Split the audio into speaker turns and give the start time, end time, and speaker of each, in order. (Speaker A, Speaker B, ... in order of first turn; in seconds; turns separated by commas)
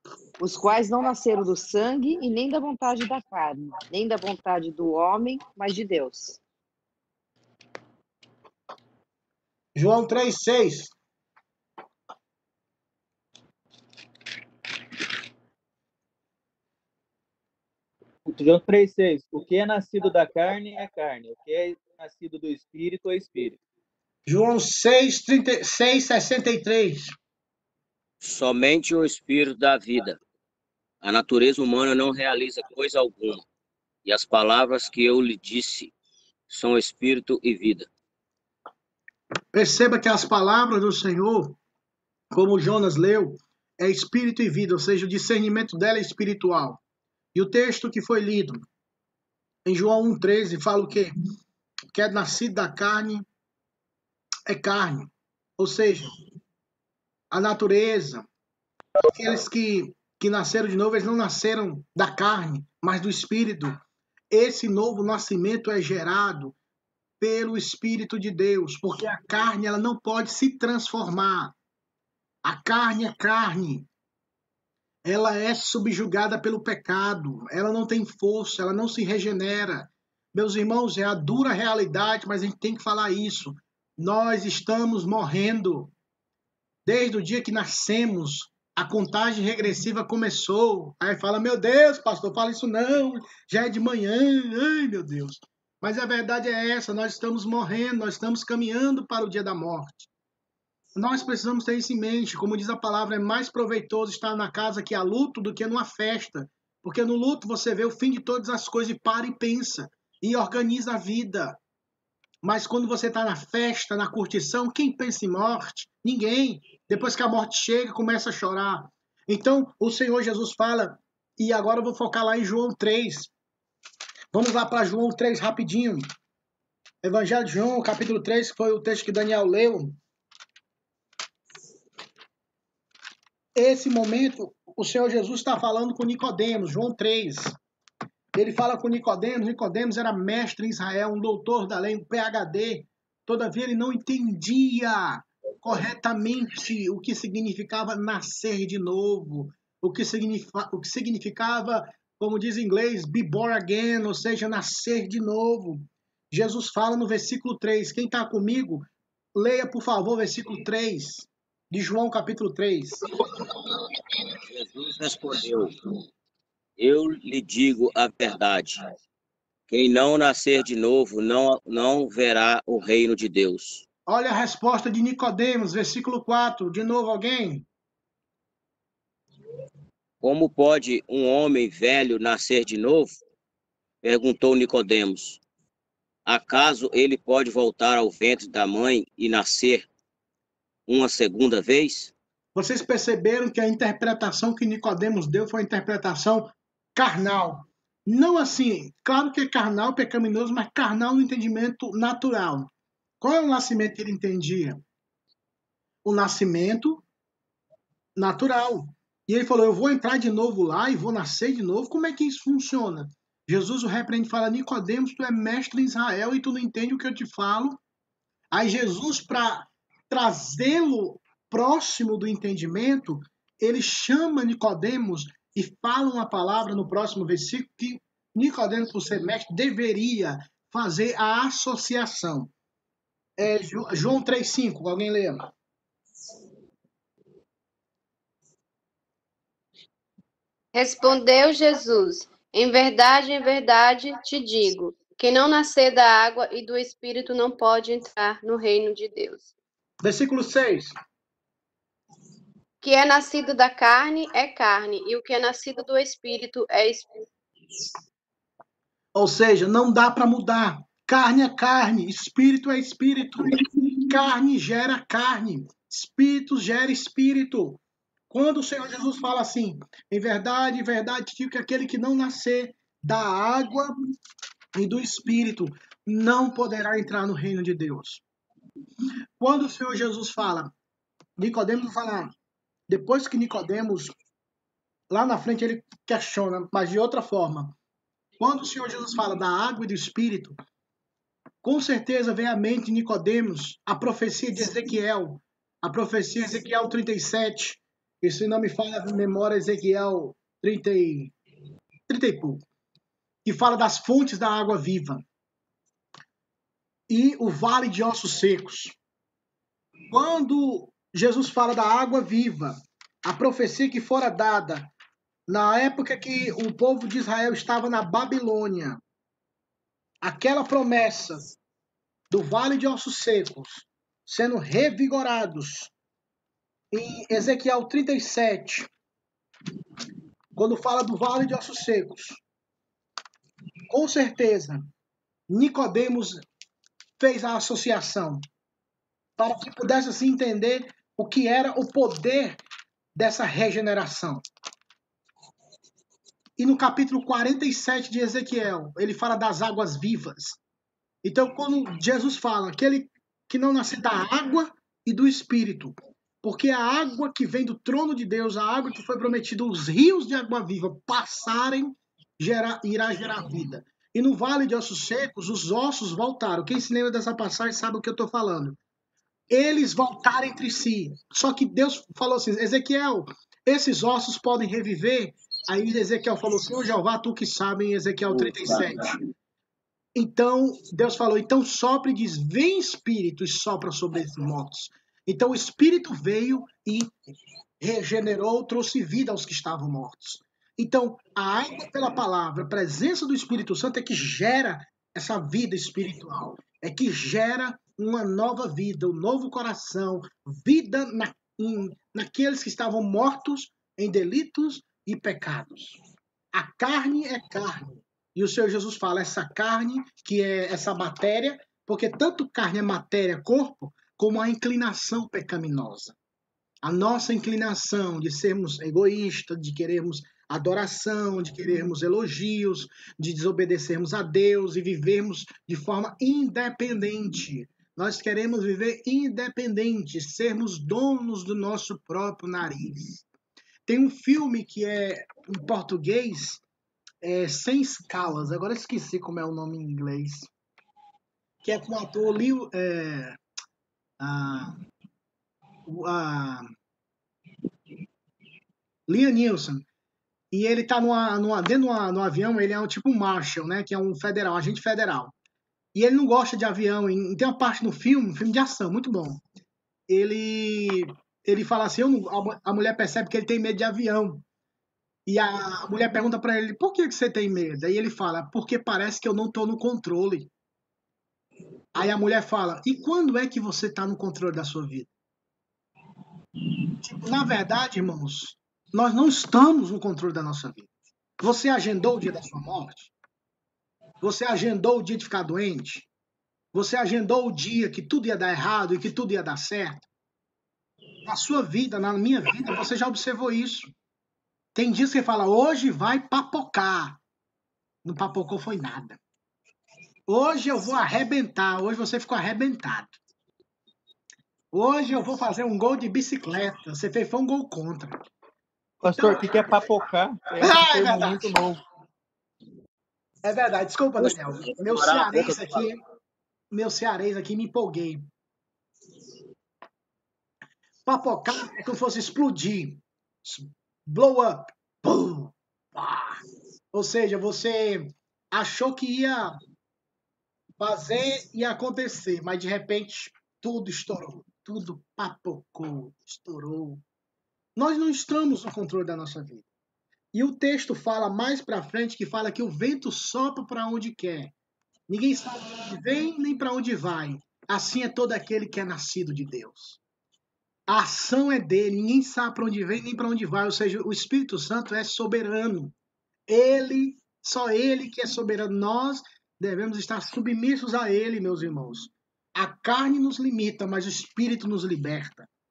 Speaker A: 0.4-6.4, Speaker B: 9.8-10.9, Speaker C: 18.2-23.6, Speaker B: 24.3-27.1, Speaker D: 28.2-30.2, Speaker D: 31.0-33.4, Speaker D: 34.0-35.9, Speaker D: 36.5-37.9, Speaker B: 39.5-41.6, Speaker B: 42.3-46.8, Speaker B: 47.4-48.7, Speaker B: 49.6-51.1, Speaker B: 51.9-53.3, Speaker B: 54.5-56.1, Speaker B: 57.3-58.3, Speaker B: 59.0-63.8, Speaker B: 64.3-66.6, Speaker B: 67.2-71.5, Speaker B: 72.4-73.9, Speaker B: 75.0-85.9, Speaker B: 86.8-100.1, Speaker B: 101.0-111.6, Speaker B: 112.4-123.3, Speaker B: 124.3-126.0, Speaker B: 127.0-130.0, Speaker B: 133.6-137.5, Speaker B: 138.3-163.1, Speaker D: 164.4-165.7, Speaker D: 166.8-168.8, Speaker D: 169.7-173.8, Speaker B: 174.1-177.7, Speaker D: 180.2-183.2, Speaker D: 184.0-185.4, Speaker D: 186.3-189.9, Speaker D: 190.9-192.1, Speaker B: 192.6-202.7, Speaker B: 203.2-204.8, Speaker B: 206.0-207.0, Speaker B: 208.2-217.8, Speaker B: 218.5-232.5, Speaker B: 233.4-235.5, Speaker E: 240.7-249.5, Speaker B: 250.0-250.9, Speaker E: 252.8-257.1, Speaker B: 259.1-273.9, Speaker B: 274.8-278.2, Speaker B: 279.4-280.7, Speaker B: 281.4-282.3, Speaker B: 282.9-284.1, Speaker B: 285.1-287.8, Speaker B: 288.4-290.6, Speaker B: 291.6-301.3, Speaker B: 302.1-302.6, Speaker B: 303.4-305.2, Speaker B: 307.1-308.9, Speaker B: 310.1-314.9, Speaker B: 315.5-319.0, Speaker B: 320.2-321.5, Speaker B: 322.3-325.9, Speaker B: 326.9-328.9, Speaker B: 330.6-332.4, Speaker B: 333.9-334.9, Speaker B: 335.5-336.4, Speaker B: 337.2-338.4, Speaker B: 339.4-342.6, Speaker B: 343.1-344.4, Speaker B: 346.6-350.6, Speaker B: 351.2-368.8, Speaker B: 369.5-379.2, Speaker D: 378.3-378.9, Speaker B: 380.1-387.1, Speaker B: 387.8-406.0, Speaker B: 406.5-416.1, Speaker B: 416.8-433.2, Speaker B: 433.9-436.6, Speaker B: 437.2-440.5, Speaker B: 441.6-443.4, Speaker B: 444.2-444.8, Speaker B: 445.9-446.7, Speaker B: 449.1-449.9, Speaker B: 450.5-455.3, Speaker B: 455.9-459.4, Speaker B: 460.1-464.4, Speaker B: 465.3-470.5, Speaker B: 471.9-475.1, Speaker B: 477.0-480.9, Speaker B: 481.4-483.1, Speaker B: 484.2-486.1, Speaker B: 486.7-490.1, Speaker B: 491.2-493.9, Speaker B: 494.8-497.2, Speaker B: 498.0-499.2, Speaker B: 500.3-503.2, Speaker B: 504.7-508.2, Speaker C: 509.0-511.8, Speaker B: 509.1-509.5, Speaker B: 510.6-511.6, Speaker B: 513.4-516.0, Speaker D: 514.2-515.8, Speaker B: 516.7-518.3, Speaker B: 521.1-526.4, Speaker B: 526.9-529.6, Speaker B: 530.8-537.0, Speaker B: 537.8-539.7, Speaker B: 540.3-544.5, Speaker B: 545.1-550.0, Speaker B: 550.9-555.9, Speaker B: 556.5-565.5